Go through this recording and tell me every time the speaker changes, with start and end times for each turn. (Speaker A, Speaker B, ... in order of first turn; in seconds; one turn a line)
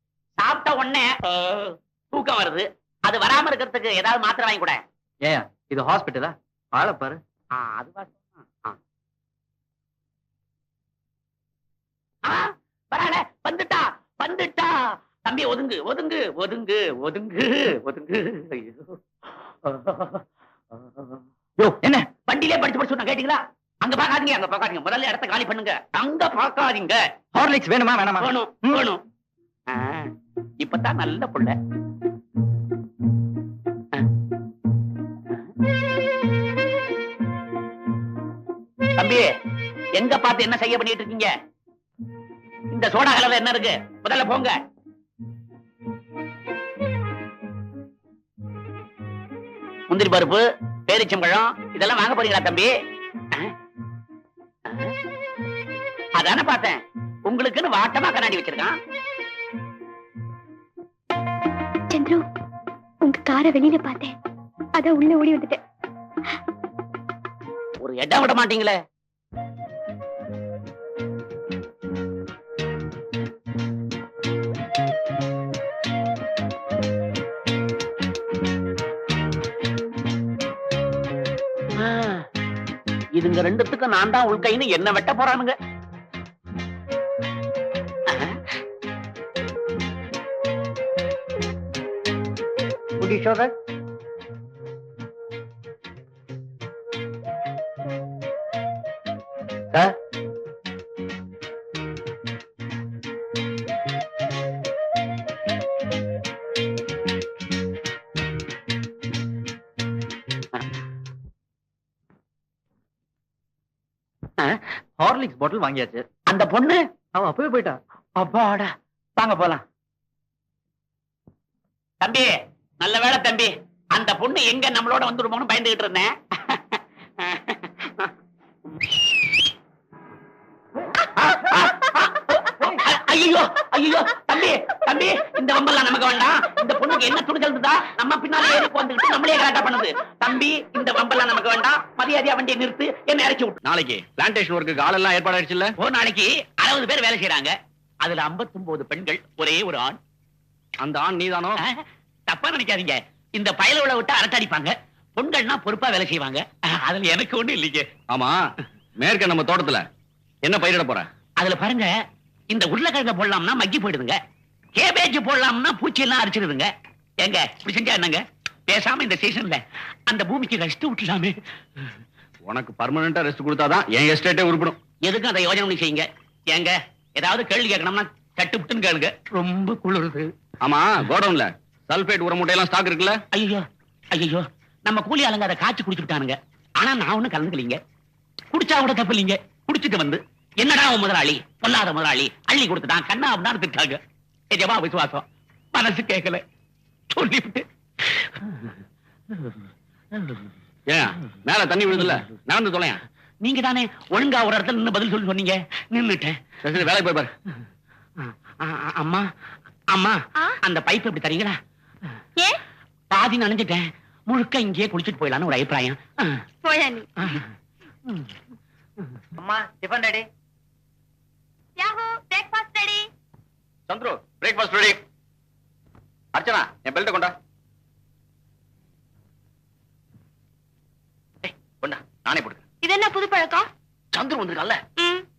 Speaker A: 0.4-4.8
Speaker B: 5.2-7.2
Speaker A: 7.5-8.8
Speaker A: 12.2-19.0
Speaker A: 19.6-20.2
Speaker B: 21.6-22.1
Speaker A: 22.3-27.0
Speaker B: 27.3-28.8
Speaker A: 28.2-29.0
Speaker A: 29.7-31.6
Speaker A: 39.0-39.3
Speaker A: 40.0-41.3
Speaker A: 42.7-44.6
Speaker A: 49.9-52.7
Speaker A: 54.7-54.9
Speaker A: 56.2-58.7
Speaker C: 61.9-62.2
Speaker C: 63.0-64.1
Speaker C: 64.8-65.6
Speaker A: 67.8-68.8
Speaker A: 81.8-82.2
Speaker A: 83.2-85.5
Speaker A: 88.1-88.4
Speaker B: 115.0-116.0
Speaker A: 116.3-116.8
Speaker B: 117.1-117.8
Speaker A: 118.2-119.6
Speaker A: 122.0-122.3
Speaker A: 122.8-128.1
Speaker A: 131.0-143.6
Speaker D: 143.6-145.7
Speaker A: 145.8-150.0
Speaker D: 150.8-151.6
Speaker A: 152.3-157.9
Speaker D: 158.1-158.4
Speaker D: 159.0-159.9
Speaker D: 160.4-161.1
Speaker A: 161.4-161.9
Speaker A: 162.5-164.2
Speaker A: 164.8-166.7
Speaker A: 167.2-171.4
Speaker D: 172.4-174.8
Speaker A: 175.1-180.3
Speaker D: 180.6-183.2
Speaker A: 183.3-183.6
Speaker A: 184.1-187.8
Speaker A: 188.5-194.0
Speaker A: 194.5-196.4
Speaker A: 197.1-198.6
Speaker D: 200.9-203.0
Speaker A: 203.4-206.4
Speaker D: 206.6-207.3
Speaker A: 208.2-209.2
Speaker A: 209.9-211.6
Speaker A: 213.1-216.4
Speaker C: 216.6-217.4
Speaker B: 219.4-220.3
Speaker C: 221.8-223.1
Speaker D: 223.9-225.0
Speaker D: 226.3-227.3
Speaker D: 231.4-232.6
Speaker C: 232.8-233.7
Speaker D: 234.1-234.8
Speaker C: 235.0-235.2